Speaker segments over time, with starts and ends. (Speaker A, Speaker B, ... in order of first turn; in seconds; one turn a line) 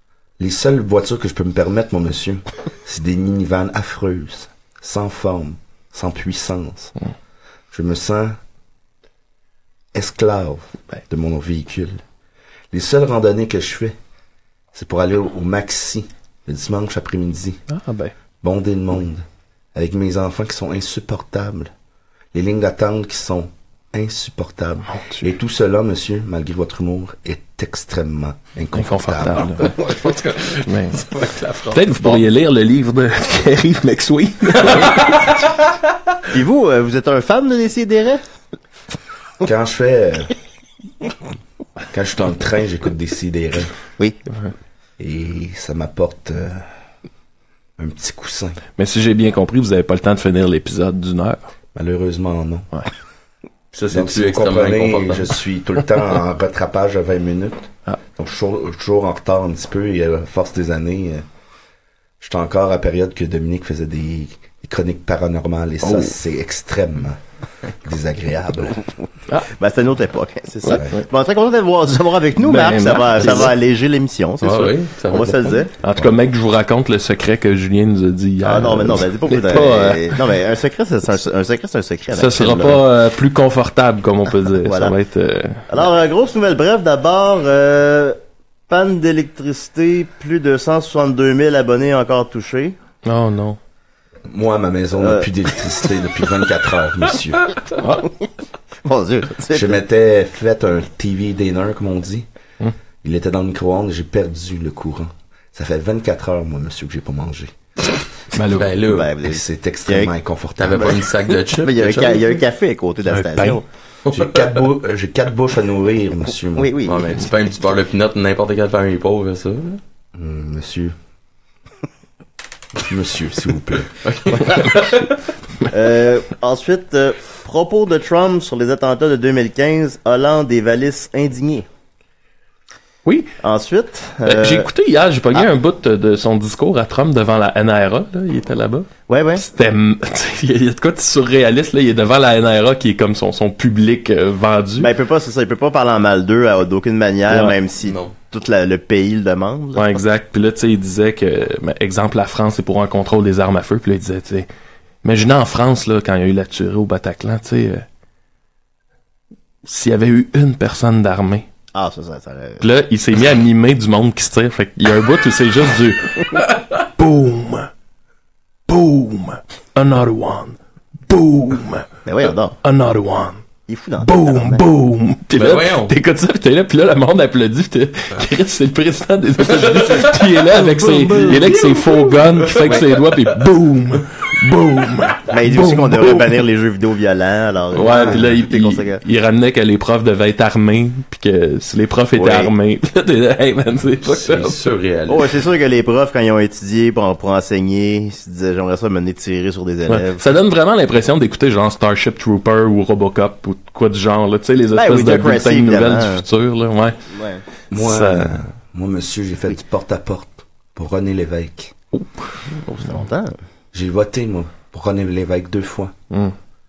Speaker A: 0.4-6.9
Speaker A: 7.7-8.4
Speaker A: 9.9-12.0
Speaker A: 12.7-13.9
Speaker A: 14.7-17.6
Speaker B: 17.7-18.1
Speaker A: 18.4-21.7
Speaker A: 22.3-29.6
Speaker B: 28.8-29.7
Speaker C: 29.6-32.2
Speaker B: 30.6-31.0
Speaker B: 31.7-35.3
Speaker C: 34.6-35.3
Speaker D: 36.3-38.2
Speaker A: 39.4-40.3
Speaker A: 41.9-43.7
Speaker A: 45.0-46.7
Speaker A: 47.8-48.6
Speaker B: 48.8-51.4
Speaker A: 51.7-52.7
Speaker C: 53.7-55.3
Speaker A: 53.9-61.2
Speaker A: 62.2-67.2
Speaker B: 65.8-66.1
Speaker A: 67.8-68.8
Speaker D: 69.4-75.7
Speaker A: 70.7-71.0
Speaker B: 72.4-73.5
Speaker C: 74.4-75.6
Speaker B: 75.8-80.2
Speaker D: 78.4-82.8
Speaker B: 82.1-85.6
Speaker D: 84.6-84.9
Speaker D: 85.7-88.2
Speaker D: 88.7-92.8
Speaker B: 93.0-93.6
Speaker A: 94.3-97.5
Speaker D: 95.0-95.2
Speaker B: 97.8-98.0
Speaker D: 98.8-99.8
Speaker A: 99.5-102.2
Speaker A: 103.0-107.5
Speaker B: 108.3-108.7
Speaker C: 108.5-109.1
Speaker D: 108.8-110.1
Speaker A: 109.2-111.0
Speaker C: 110.6-112.4
Speaker D: 111.6-113.6
Speaker B: 113.1-113.6
Speaker C: 114.1-114.3
Speaker A: 114.1-116.8
Speaker D: 116.6-117.0
Speaker C: 116.8-119.8
Speaker A: 120.1-120.9
Speaker A: 122.8-123.9
Speaker C: 124.0-125.1
Speaker D: 125.7-131.7
Speaker B: 133.0-133.3
Speaker D: 133.4-134.7
Speaker B: 134.2-144.9
Speaker D: 139.1-139.4
Speaker D: 144.8-150.0
Speaker B: 147.3-147.5
Speaker C: 147.8-148.1
Speaker B: 149.8-154.5
Speaker B: 155.0-157.8
Speaker B: 159.6-161.4
Speaker D: 161.7-162.6
Speaker B: 162.6-167.7
Speaker B: 168.7-171.9
Speaker D: 172.1-172.6
Speaker B: 172.6-173.4
Speaker D: 173.7-174.7
Speaker B: 174.0-186.3
Speaker C: 175.3-175.9
Speaker C: 181.1-183.2
Speaker D: 185.3-189.0
Speaker B: 187.7-194.6
Speaker D: 192.1-192.5
Speaker C: 194.1-195.3
Speaker D: 195.1-200.2
Speaker B: 199.9-207.0
Speaker D: 204.7-206.2
Speaker D: 207.1-207.4
Speaker A: 207.7-211.7
Speaker B: 207.7-208.4
Speaker D: 212.6-213.3
Speaker A: 213.7-215.9